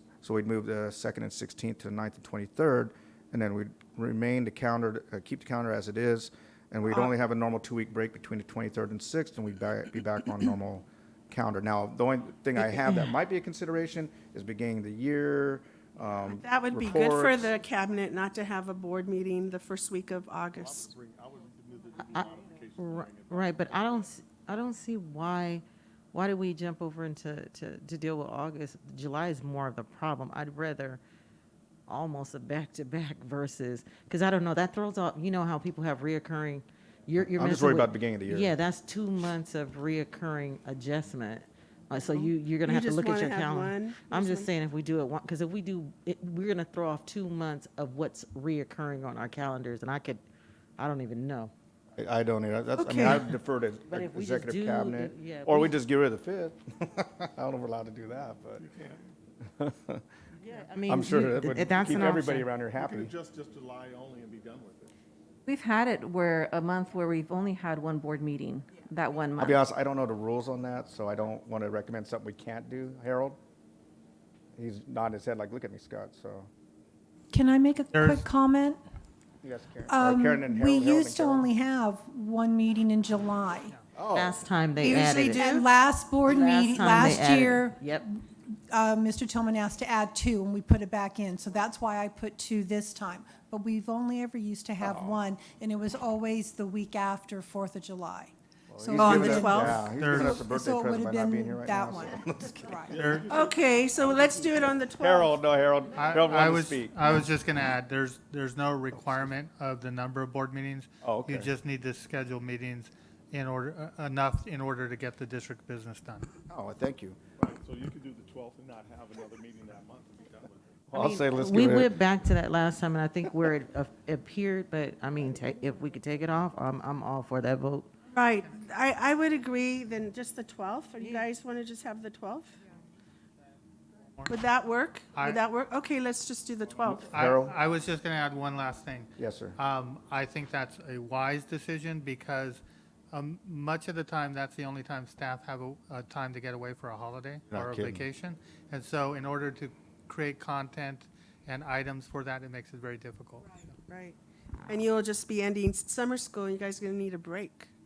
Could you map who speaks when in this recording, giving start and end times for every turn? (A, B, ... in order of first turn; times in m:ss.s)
0:00.2-0:17.5 A
0:16.2-0:20.9 B
0:20.5-0:24.1 C
0:22.1-0:31.0 D
0:31.9-0:50.2 D
0:37.2-0:38.6 A
0:42.6-0:44.5 B
0:50.8-0:51.5 D
0:52.0-0:58.7 A
0:52.8-0:55.8 D
0:58.6-0:59.0 C
0:59.5-1:00.0 A
1:00.4-1:02.5 D
1:00.9-1:03.1 A
1:02.7-1:04.9 C
1:05.5-1:09.6 E
1:09.4-1:13.4 A
1:14.6-1:16.5 A
1:17.3-1:18.8 F
1:17.9-1:18.3 G
1:19.4-1:21.5 A
1:19.9-1:23.8 F
1:24.0-1:24.4 A
1:24.1-1:25.6 D
1:24.8-1:25.7 B
1:24.9-1:43.0 F
1:26.3-1:28.1 D
1:34.8-1:35.2 A
1:38.7-1:43.0 A
1:39.0-1:39.8 B
1:39.9-1:40.4 G
1:42.9-1:44.9 C
1:43.0-1:43.3 G
1:43.3-1:45.4 B
1:45.0-1:47.2 A
1:46.0-1:56.3 G
1:51.0-1:51.5 A
1:56.5-1:57.2 A
1:57.4-2:00.8 C
2:00.9-2:02.0 A
2:00.9-2:07.9 D
2:08.1-2:12.6 B
2:11.0-2:11.3 D
2:14.3-2:17.1 B
2:15.1-2:15.4 G
2:16.8-2:17.6 A
2:17.1-2:33.6 G
2:19.2-2:19.6 A
2:27.5-2:28.0 A
2:33.4-2:37.7 B